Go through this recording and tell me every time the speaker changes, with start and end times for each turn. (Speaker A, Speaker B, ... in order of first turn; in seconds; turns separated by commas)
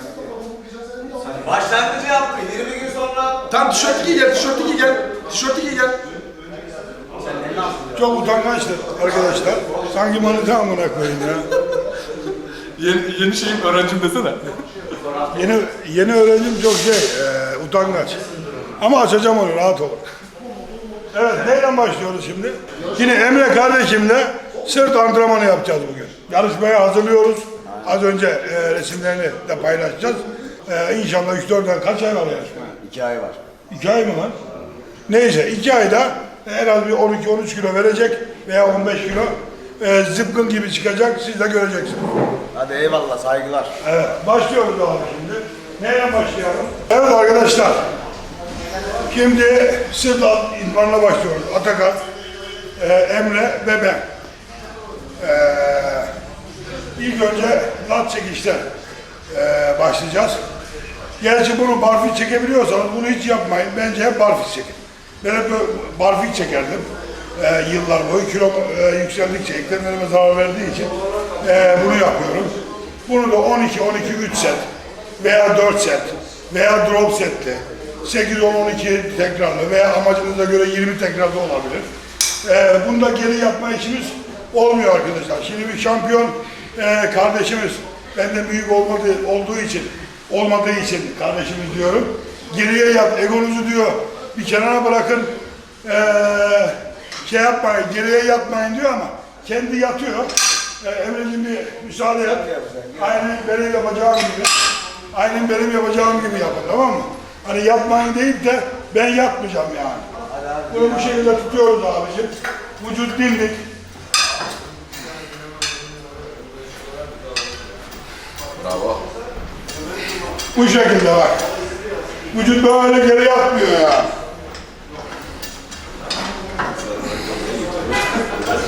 Speaker A: 1.2-3.5, Speaker B: 3.5-6.0, Speaker A: 7.1-8.3, Speaker C: 7.9-11.5, Speaker B: 12.8-14.5, Speaker A: 15.0-15.4, Speaker C: 15.3-18.2, Speaker A: 18.3-18.7, Speaker C: 18.8-20.0, Speaker C: 21.1-32.7, Speaker A: 27.6-28.0, Speaker A: 32.8-33.4, Speaker C: 33.7-34.4, Speaker C: 35.1-42.0, Speaker A: 42.5-43.7, Speaker C: 43.8-47.8, Speaker C: 49.1-52.0, Speaker C: 52.8-54.0, Speaker C: 55.2-56.1, Speaker C: 57.0-58.6, Speaker C: 59.3-60.4, Speaker C: 61.2-72.5, Speaker C: 73.0-74.6, Speaker C: 75.2-81.8, Speaker C: 82.4-102.4, Speaker A: 102.2-103.3, Speaker C: 103.0-104.5, Speaker C: 105.1-110.0, Speaker A: 110.2-111.4, Speaker C: 110.7-113.6, Speaker B: 118.6-119.0, Speaker C: 120.5-121.3, Speaker C: 122.3-124.1, Speaker B: 127.1-127.8